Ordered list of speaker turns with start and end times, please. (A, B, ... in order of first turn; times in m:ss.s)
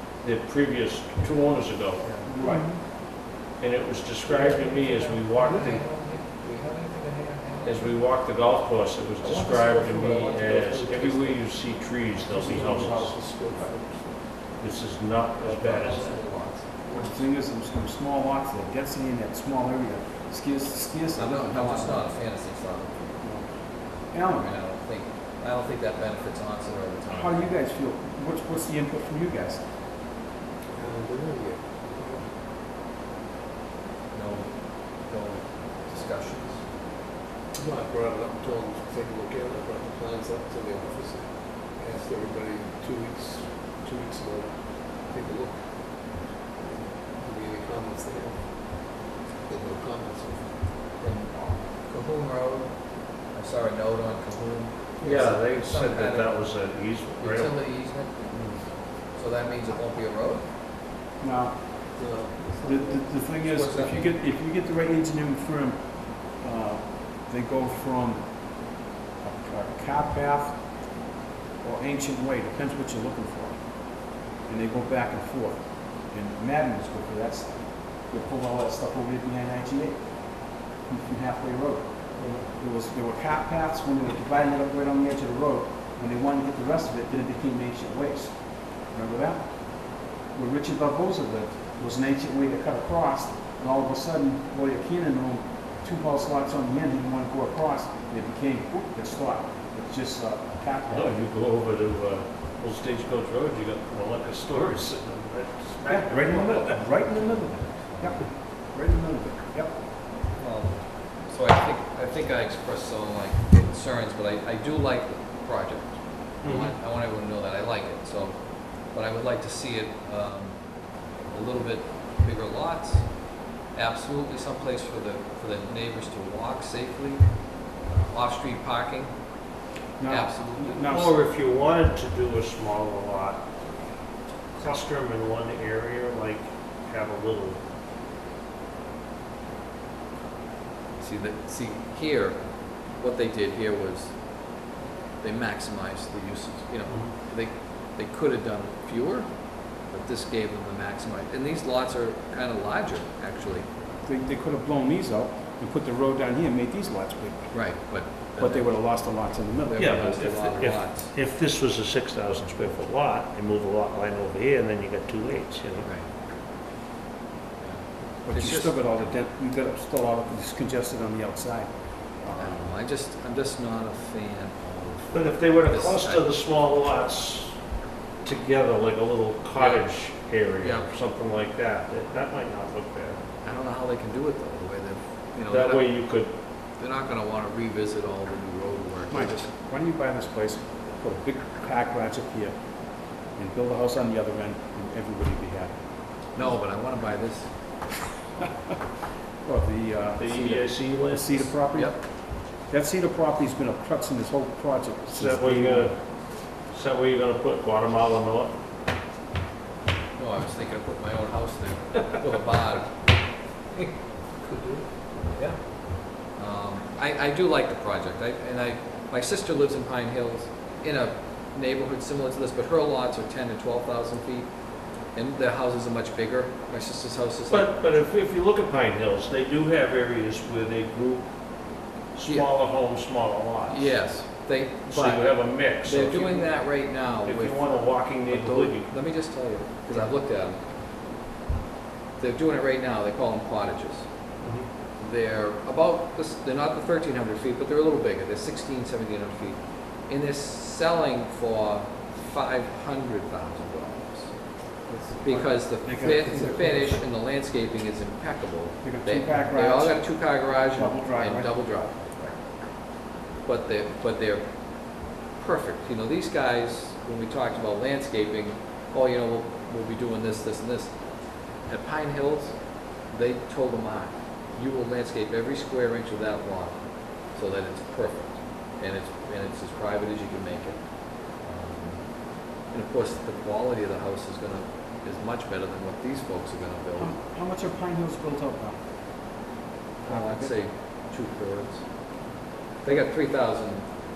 0:00.2-0:02.3 A
0:02.2-0:02.7 B
0:03.6-0:13.1 A
0:04.3-0:08.4 C
0:09.2-0:11.5 D
0:09.3-0:09.8 C
0:11.6-0:12.2 C
0:12.3-0:14.2 D
0:12.7-0:13.0 B
0:14.6-0:16.5 A
0:15.3-0:16.6 C
0:16.8-0:17.2 D
0:16.9-0:22.1 B
0:21.2-0:22.9 C
0:23.2-0:23.5 B
0:24.1-0:24.5 B
0:24.4-0:27.5 C
0:27.1-0:29.6 B
0:30.7-0:32.3 D
0:34.1-0:36.6 C
0:37.6-0:50.7 D
0:51.0-0:52.7 C
0:53.2-0:58.3 C
0:55.0-0:55.3 B
0:55.0-0:57.6 A
0:59.2-1:00.5 C
1:01.2-1:01.6 B
1:02.0-1:03.2 D
1:02.6-1:08.3 B
1:03.5-1:04.1 C
1:09.2-1:10.6 B
1:11.6-1:13.6 B
1:14.4-1:41.2 B
1:22.2-1:22.4 D
1:40.9-1:46.8 A
1:45.8-1:49.7 B
1:46.9-1:48.2 C
1:50.4-2:00.6 C
1:56.4-1:56.8 A
2:01.3-2:07.4 C
2:07.9-2:09.1 C
2:10.0-2:11.2 B
2:10.1-2:11.2 C
2:10.9-2:13.4 A
2:14.6-2:17.6 A
2:21.0-2:22.4 C
2:22.9-2:24.1 C
2:25.2-2:33.7 C
2:34.0-2:37.5 B
2:37.5-2:38.7 C
2:38.4-2:40.1 B
2:39.7-2:41.3 C
2:39.8-2:45.9 A
2:47.6-2:48.8 C
2:48.2-2:52.7 B
2:52.4-2:56.4 C
2:55.1-2:57.5 A
2:58.2-3:03.2 A
2:59.5-3:01.1 C
3:03.4-3:06.3 C
3:05.5-3:06.3 A
3:06.8-3:09.5 C
3:09.1-3:12.5 B
3:13.4-3:15.7 B
3:16.4-3:17.5 C
3:19.4-3:22.0 B
3:20.2-3:21.2 A
3:20.3-3:22.0 C
3:22.7-3:26.0 B
3:25.1-3:25.9 A
3:26.8-3:28.5 A
3:30.2-3:32.9 C
3:34.4-3:34.9 D
3:35.4-3:44.5 C
3:45.2-3:48.1 C
3:47.5-3:51.3 A
3:52.2-3:53.8 A
3:52.2-3:52.7 C
3:53.6-4:00.6 C
3:54.9-3:56.2 A
3:57.2-3:58.8 A
4:02.2-4:04.1 C
4:05.0-4:14.3 C
4:14.9-4:17.0 B
4:15.2-4:22.3 C
4:18.8-4:20.0 B
4:20.7-4:21.6 B
4:23.5-4:24.4 C
4:25.4-4:30.9 C
4:31.6-4:32.6 C
4:33.1-4:36.8 C
4:37.3-4:42.0 C
4:42.7-4:47.2 C
4:47.0-4:48.8 B
4:50.1-4:50.5 B
4:50.1-4:51.8 C
4:52.8-4:53.8 C